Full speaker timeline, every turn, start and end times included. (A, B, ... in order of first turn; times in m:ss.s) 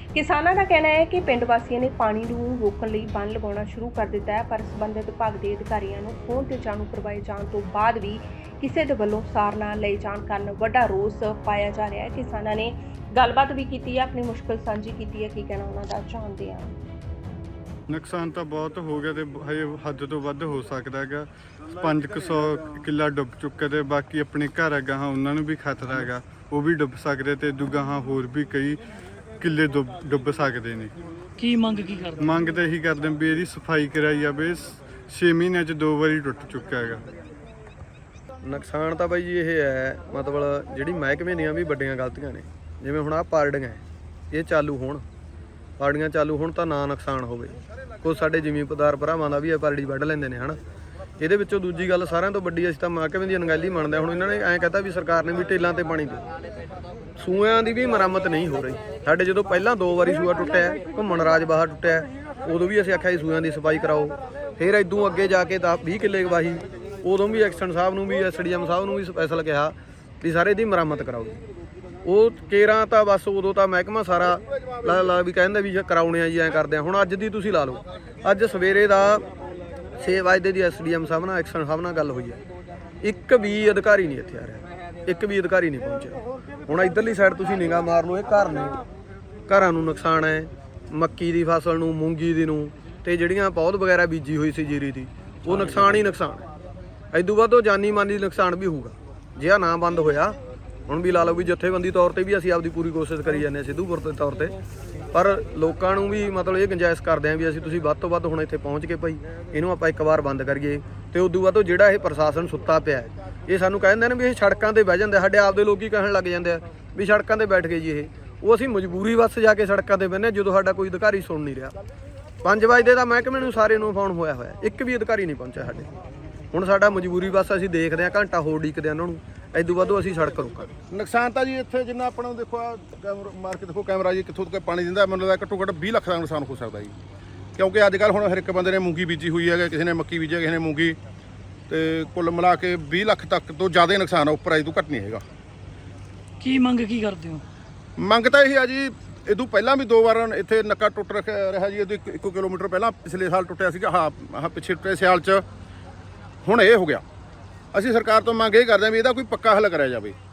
0:00.1-0:16.7 A
0:17.9-0:28.8 B
0:29.4-0:30.9 B
0:31.4-0:32.3 C
0:32.2-0:37.0 B
0:38.4-0:45.0 D
0:45.8-0:50.6 D
0:51.2-0:56.3 D
0:57.2-1:11.4 D
1:12.0-1:19.3 D
1:20.0-1:22.4 D
1:23.0-1:28.8 D
1:29.5-1:36.5 D
1:37.1-1:44.6 D
1:45.1-2:01.8 D
2:02.4-2:05.9 D
2:06.5-2:10.7 D
2:10.9-2:16.9 E
2:17.6-2:21.0 E
2:21.7-2:25.2 E
2:26.4-2:27.4 C
2:28.0-2:35.4 E
2:36.4-2:37.0 E
2:37.7-2:40.2 E